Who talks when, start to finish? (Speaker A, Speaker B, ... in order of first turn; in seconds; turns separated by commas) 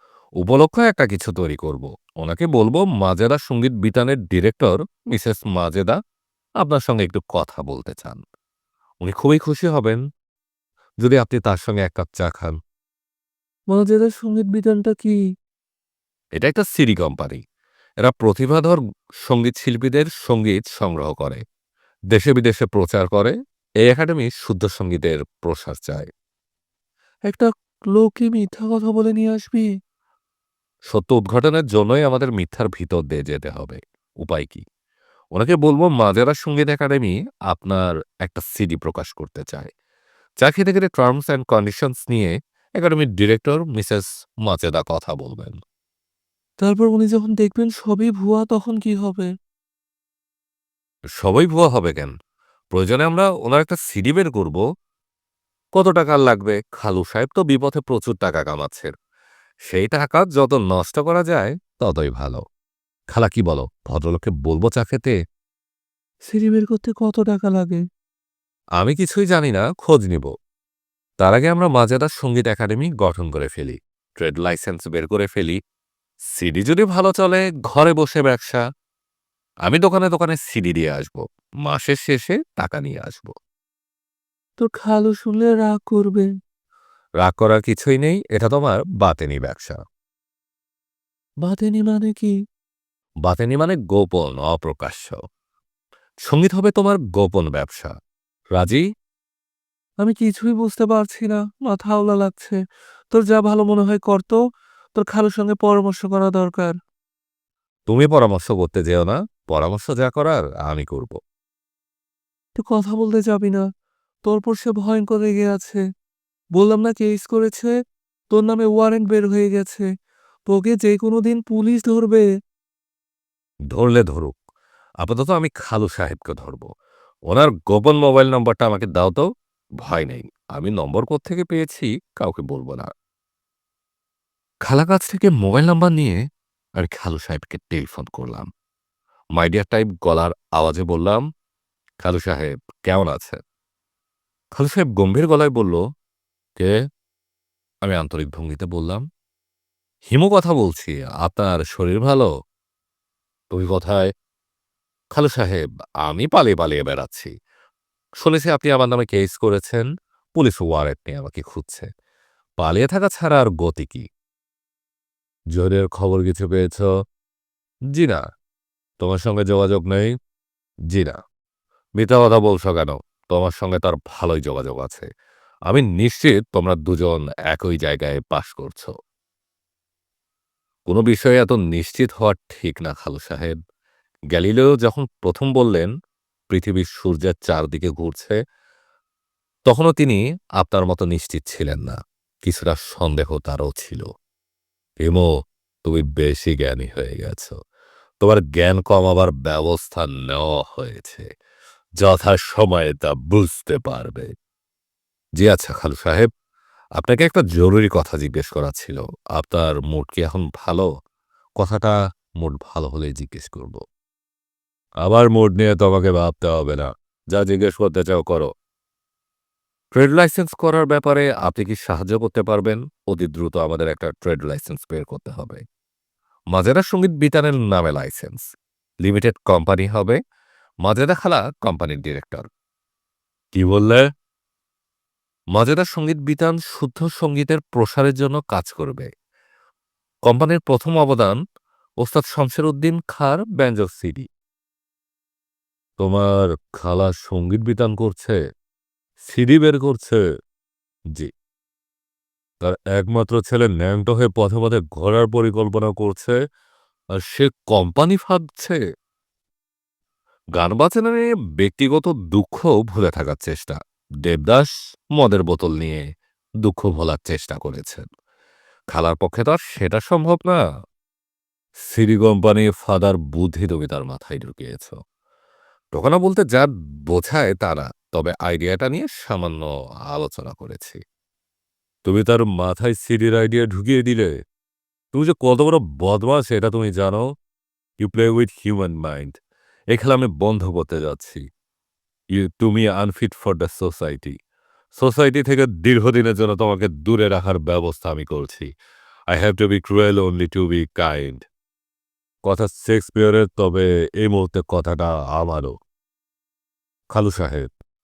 Speaker A: 0.4-6.0, Speaker A: 6.6-8.2, Speaker A: 9.0-10.0, Speaker A: 11.0-12.6, Speaker B: 13.7-15.2, Speaker A: 16.4-17.4, Speaker A: 18.0-21.4, Speaker A: 22.1-26.1, Speaker B: 27.3-29.7, Speaker A: 30.9-34.6, Speaker A: 35.3-39.7, Speaker A: 40.4-45.6, Speaker B: 46.6-49.3, Speaker A: 51.2-52.1, Speaker A: 52.7-54.6, Speaker A: 55.8-58.9, Speaker A: 59.7-62.4, Speaker A: 63.1-65.2, Speaker B: 66.3-67.8, Speaker A: 68.8-70.3, Speaker A: 71.2-75.6, Speaker A: 76.4-78.6, Speaker A: 79.7-83.3, Speaker B: 84.6-86.3, Speaker A: 87.2-89.8, Speaker B: 91.4-92.3, Speaker A: 93.2-95.2, Speaker A: 96.3-97.9, Speaker A: 98.5-98.9, Speaker B: 100.0-102.6, Speaker B: 103.1-104.4, Speaker B: 105.0-106.7, Speaker A: 107.9-111.2, Speaker B: 112.6-113.7, Speaker B: 114.3-115.8, Speaker B: 116.6-117.8, Speaker B: 118.3-119.9, Speaker B: 120.5-122.3, Speaker A: 123.7-124.4, Speaker A: 125.0-126.7, Speaker A: 127.3-129.3, Speaker A: 129.8-132.9, Speaker A: 134.7-136.2, Speaker A: 136.8-138.5, Speaker A: 139.4-141.2, Speaker A: 142.0-143.4, Speaker A: 144.5-145.8, Speaker A: 147.8-149.0, Speaker A: 150.1-152.3, Speaker A: 153.5-154.1, Speaker A: 155.1-157.3, Speaker A: 158.2-161.9, Speaker A: 162.6-164.1, Speaker A: 165.5-166.9, Speaker A: 167.9-168.2, Speaker A: 169.0-170.1, Speaker A: 170.9-171.2, Speaker A: 172.0-175.1, Speaker A: 175.7-178.9, Speaker A: 180.9-183.6, Speaker A: 184.3-185.9, Speaker A: 186.5-188.4, Speaker A: 189.7-194.0, Speaker A: 195.8-197.6, Speaker A: 198.2-201.3, Speaker A: 202.0-204.3, Speaker A: 205.4-206.3, Speaker A: 207.0-210.9, Speaker A: 211.6-213.8, Speaker A: 215.0-218.5, Speaker A: 219.9-225.6, Speaker A: 226.5-228.5, Speaker A: 229.0-230.2, Speaker A: 230.8-232.4, Speaker A: 233.6-234.0, Speaker A: 235.6-239.1, Speaker A: 240.3-241.4, Speaker A: 242.0-244.3, Speaker A: 246.0-248.4, Speaker A: 249.2-250.2, Speaker A: 252.6-256.4, Speaker A: 257.2-258.8, Speaker A: 260.6-266.0, Speaker A: 266.6-268.1, Speaker A: 268.9-270.6, Speaker A: 271.9-275.0, Speaker A: 275.9-281.0, Speaker A: 282.1-284.3, Speaker A: 285.1-287.3, Speaker A: 288.0-289.4, Speaker A: 289.9-291.4, Speaker A: 292.3-294.4, Speaker A: 295.0-298.7, Speaker A: 299.3-301.5, Speaker A: 302.5-305.8, Speaker A: 307.1-307.7